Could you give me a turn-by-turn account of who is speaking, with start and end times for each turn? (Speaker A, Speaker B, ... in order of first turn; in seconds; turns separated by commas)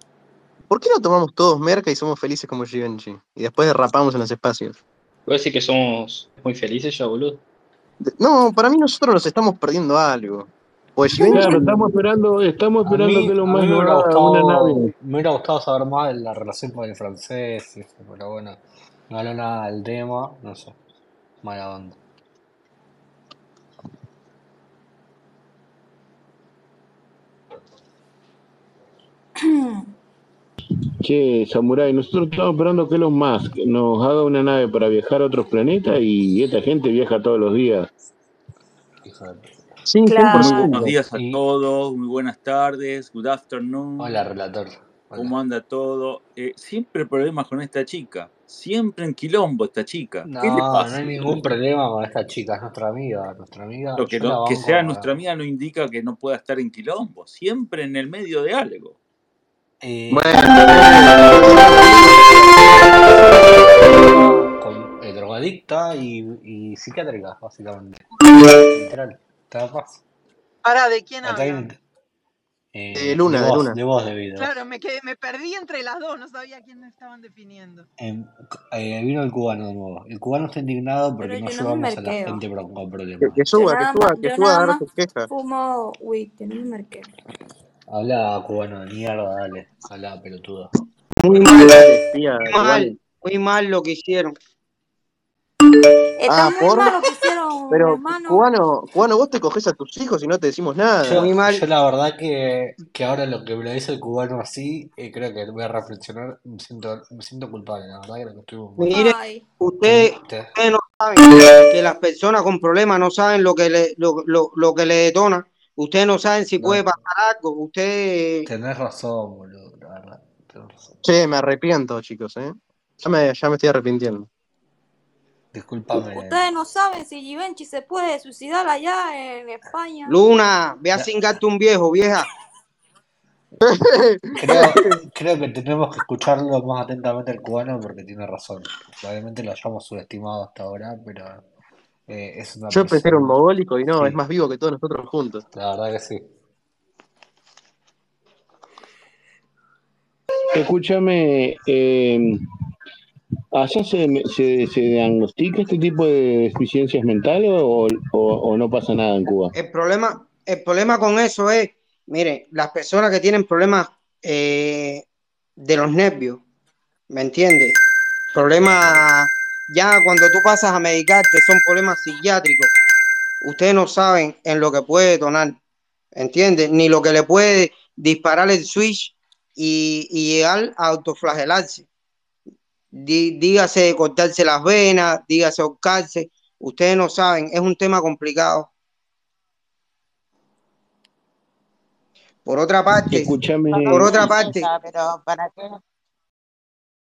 Speaker A: 0.7-4.7, Speaker B: 5.3-7.4, Speaker A: 8.2-11.8, Speaker C: 11.2-14.9, Speaker D: 11.3-11.7, Speaker D: 12.8-20.8, Speaker D: 21.4-22.0, Speaker E: 29.4-29.9, Speaker C: 31.0-37.9, Speaker D: 39.0-39.6, Speaker A: 39.9-40.9, Speaker E: 40.0-40.9, Speaker F: 40.3-44.2, Speaker D: 41.1-41.4, Speaker D: 44.0-45.3, Speaker F: 45.1-51.4, Speaker D: 50.2-55.1, Speaker F: 54.0-59.0, Speaker D: 59.8-68.0, Speaker A: 60.1-62.2, Speaker D: 68.6-70.0, Speaker G: 70.6-71.7, Speaker D: 71.2-71.8, Speaker D: 72.7-74.5, Speaker A: 72.9-73.8, Speaker G: 74.4-77.9, Speaker D: 78.0-83.4, Speaker E: 81.2-82.4, Speaker A: 83.2-85.3, Speaker E: 83.5-87.1, Speaker D: 87.9-90.7, Speaker H: 91.2-91.8, Speaker A: 91.3-93.0, Speaker H: 92.5-94.3, Speaker E: 96.2-98.4, Speaker A: 96.3-97.0, Speaker A: 97.7-101.3, Speaker D: 101.0-108.9, Speaker H: 101.1-101.6, Speaker E: 108.9-109.4, Speaker H: 108.9-118.5, Speaker D: 109.8-110.5, Speaker D: 116.6-116.8, Speaker D: 118.5-120.9, Speaker A: 121.0-124.3, Speaker D: 125.5-126.4, Speaker E: 125.9-130.1, Speaker H: 130.1-132.3, Speaker A: 133.6-135.0, Speaker D: 134.3-141.4, Speaker D: 142.1-143.3, Speaker A: 142.7-145.4, Speaker D: 145.5-146.2, Speaker C: 150.5-152.4, Speaker C: 153.5-159.5, Speaker H: 159.5-165.0, Speaker H: 165.6-166.4, Speaker H: 167.1-167.8, Speaker H: 168.3-172.7, Speaker D: 168.7-169.0, Speaker H: 173.4-175.6, Speaker H: 176.2-181.8, Speaker H: 182.9-188.7, Speaker H: 192.4-193.3, Speaker C: 193.1-194.4, Speaker I: 193.7-195.8, Speaker H: 193.8-194.7